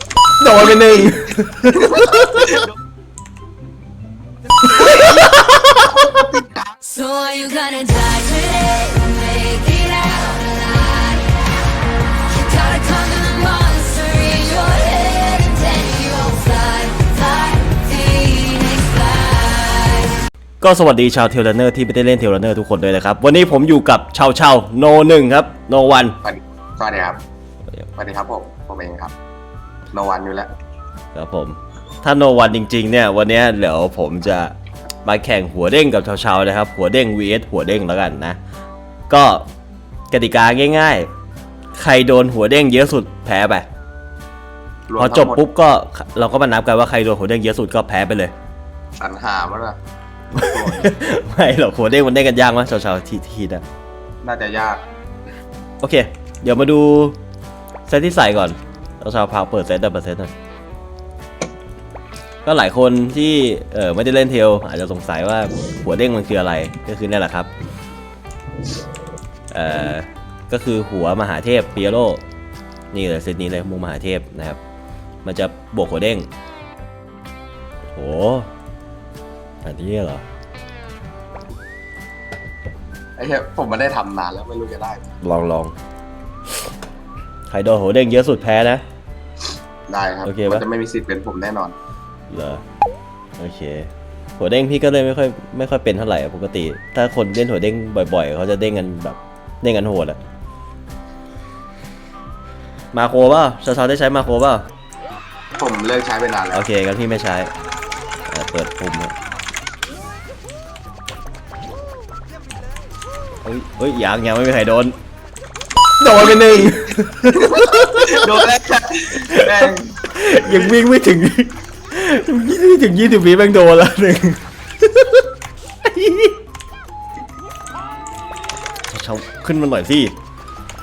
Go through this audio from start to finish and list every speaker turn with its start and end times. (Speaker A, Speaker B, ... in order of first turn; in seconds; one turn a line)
Speaker A: 0.4-2.7
Speaker B: 0.6-2.7
Speaker A: 4.6-6.2
Speaker B: 4.7-6.7
Speaker C: 6.8-11.5
Speaker C: 12.3-20.1
Speaker A: 20.6-26.1
Speaker B: 26.2-27.2
Speaker B: 27.9-29.1
Speaker B: 29.9-30.5
Speaker A: 31.1-34.5
Speaker A: 35.0-38.4
Speaker A: 39.1-39.5
Speaker A: 40.1-41.1
Speaker A: 41.7-43.6
Speaker B: 44.9-45.4
Speaker A: 45.0-48.3
Speaker B: 49.0-49.8
Speaker A: 50.3-53.6
Speaker B: 50.3-50.9
Speaker B: 54.2-54.8
Speaker A: 55.8-57.2
Speaker A: 57.9-60.3
Speaker A: 62.4-67.5
Speaker A: 69.5-72.2
Speaker A: 72.9-74.6
Speaker A: 75.2-76.3
Speaker A: 77.9-78.5
Speaker A: 79.6-80.2
Speaker B: 83.2-85.1
Speaker A: 85.2-85.7
Speaker A: 87.5-88.8
Speaker B: 89.9-91.7
Speaker A: 90.2-90.6
Speaker A: 92.3-92.6
Speaker A: 93.4-100.2
Speaker A: 102.9-104.7
Speaker B: 105.6-106.6
Speaker A: 106.5-107.5
Speaker A: 108.3-109.1
Speaker A: 113.4-114.9
Speaker A: 116.0-118.4
Speaker B: 116.2-120.7
Speaker A: 119.2-125.2
Speaker A: 125.8-126.4
Speaker A: 128.9-130.1